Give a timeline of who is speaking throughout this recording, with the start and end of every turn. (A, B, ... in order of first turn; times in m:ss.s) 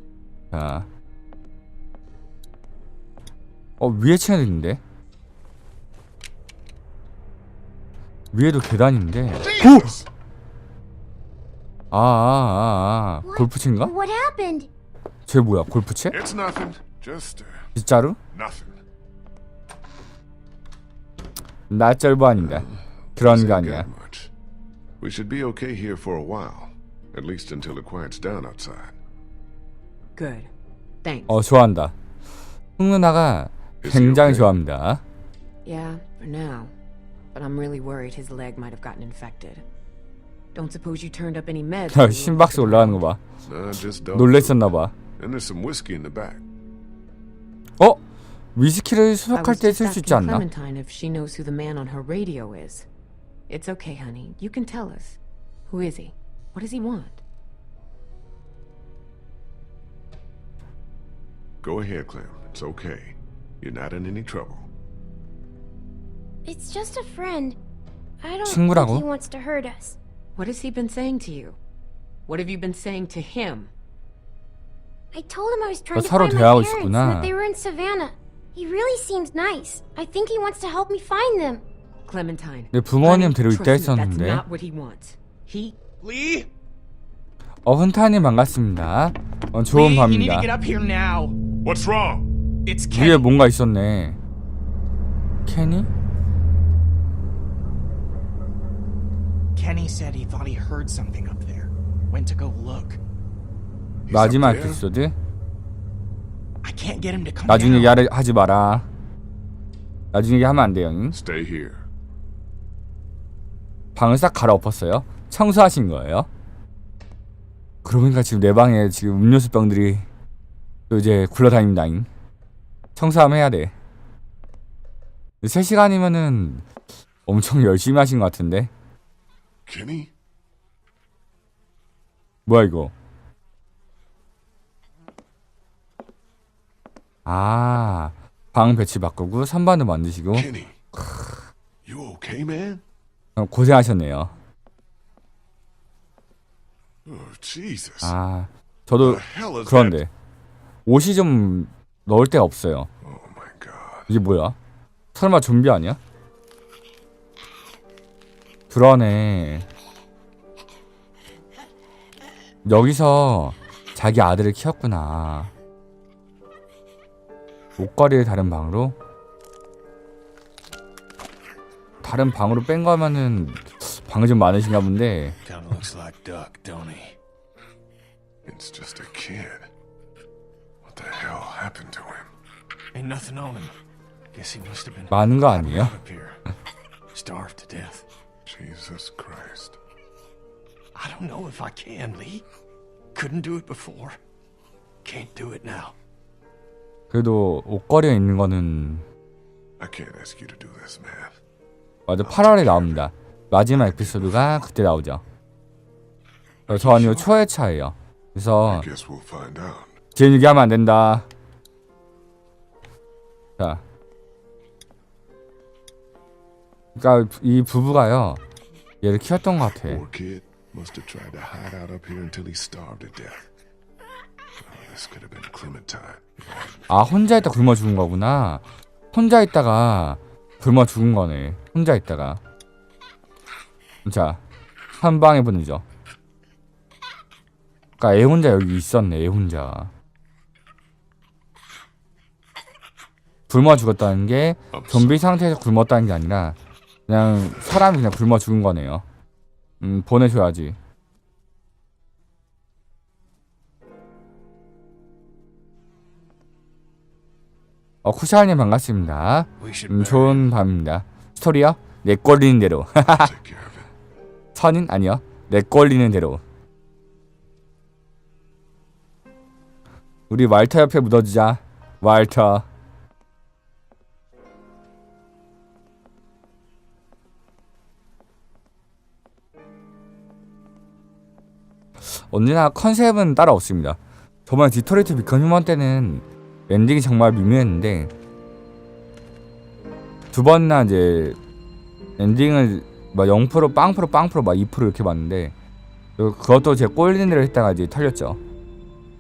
0:00.5-0:00.9 A
0:03.8-0:04.8 A
0:08.3-0:09.9 A
0:09.4-0:10.1 B
0:11.9-0:13.9 A
0:13.2-0:14.7 C
0:15.3-0:16.2 A
0:16.1-0:17.7 B
0:17.8-0:18.2 A
0:18.3-0:18.8 B
0:21.7-0:23.9 A
0:22.3-0:24.3 B
0:25.0-0:29.0 B
0:30.2-0:30.5 D
0:31.0-0:31.4 D
0:31.3-0:32.0 A
0:32.8-0:35.0 A
0:33.8-0:34.5 B
0:35.6-0:36.7 D
0:37.3-0:39.6 D
0:40.5-0:43.1 D
0:41.9-0:43.2 A
0:43.4-0:44.6 B
0:44.1-0:44.9 A
0:45.2-0:46.4 B
0:48.6-0:50.4 A
0:49.3-0:52.9 D
0:53.5-0:55.2 D
0:55.7-0:57.2 D
1:01.6-1:04.7 B
1:06.4-1:07.6 C
1:08.2-1:10.0 C
1:08.4-1:09.0 A
1:10.4-1:11.6 D
1:12.3-1:13.7 D
1:15.1-1:21.6 C
1:16.0-1:17.3 A
1:22.1-1:25.8 D
1:22.7-1:24.4 A
1:26.0-1:26.5 E
1:27.7-1:30.5 A
1:29.7-1:31.4 F
1:31.6-1:32.3 B
1:32.6-1:33.3 F
1:32.9-1:34.2 A
1:35.5-1:35.9 A
1:39.6-1:43.0 F
1:44.1-1:44.8 B
1:44.1-1:45.2 A
1:46.6-1:48.0 F
1:47.5-1:48.9 A
1:50.1-1:51.2 A
1:51.1-1:51.8 B
1:54.0-1:56.3 A
1:57.8-2:00.1 A
2:00.9-2:02.1 A
2:03.0-2:03.7 A
2:05.4-2:06.7 A
2:07.3-2:08.7 A
2:09.7-2:10.1 B
2:12.5-2:12.9 A
2:17.3-2:21.4 A
2:20.3-2:20.8 B
2:21.8-2:22.8 B
2:23.4-2:24.4 A
2:27.0-2:28.2 B
2:28.0-2:30.1 A
2:29.0-2:30.0 B
2:30.9-2:32.9 A
2:33.0-2:34.1 B
2:34.1-2:34.6 A
2:35.1-2:36.0 A
2:38.7-2:39.7 A
2:42.6-2:45.5 A
2:47.8-2:49.0 A
2:52.0-2:55.4 A
2:55.4-2:57.2 E
2:58.5-2:59.7 B
3:00.8-3:02.3 B
3:02.9-3:03.7 E
3:04.3-3:06.4 E
3:05.1-3:06.0 A
3:07.1-3:08.0 E
3:08.5-3:09.8 B
3:11.0-3:12.4 E
3:13.1-3:14.2 E
3:15.0-3:16.0 E
3:17.1-3:19.0 A
3:19.8-3:21.4 B
3:22.1-3:25.2 A
3:22.2-3:23.1 B
3:23.7-3:24.7 B
3:26.7-3:27.3 B
3:26.7-3:28.9 A
3:28.7-3:30.0 B
3:30.2-3:31.3 A
3:37.0-3:38.4 A
3:39.0-3:40.0 A
3:39.8-3:43.5 B
3:44.6-3:47.6 B
3:46.9-3:52.4 A
3:54.0-3:54.4 A
3:55.0-3:55.8 A
3:58.0-3:59.9 A
4:03.5-4:06.6 A
4:04.7-4:05.3 B
4:07.1-4:09.0 A
4:09.8-4:10.8 A
4:18.0-4:23.3 A
4:19.6-4:20.5 E
4:23.1-4:23.9 B
4:24.6-4:26.4 A
4:30.3-4:32.7 A
4:42.1-4:48.1 A
4:50.3-4:51.4 A
4:52.2-4:55.5 A
4:56.2-4:58.4 A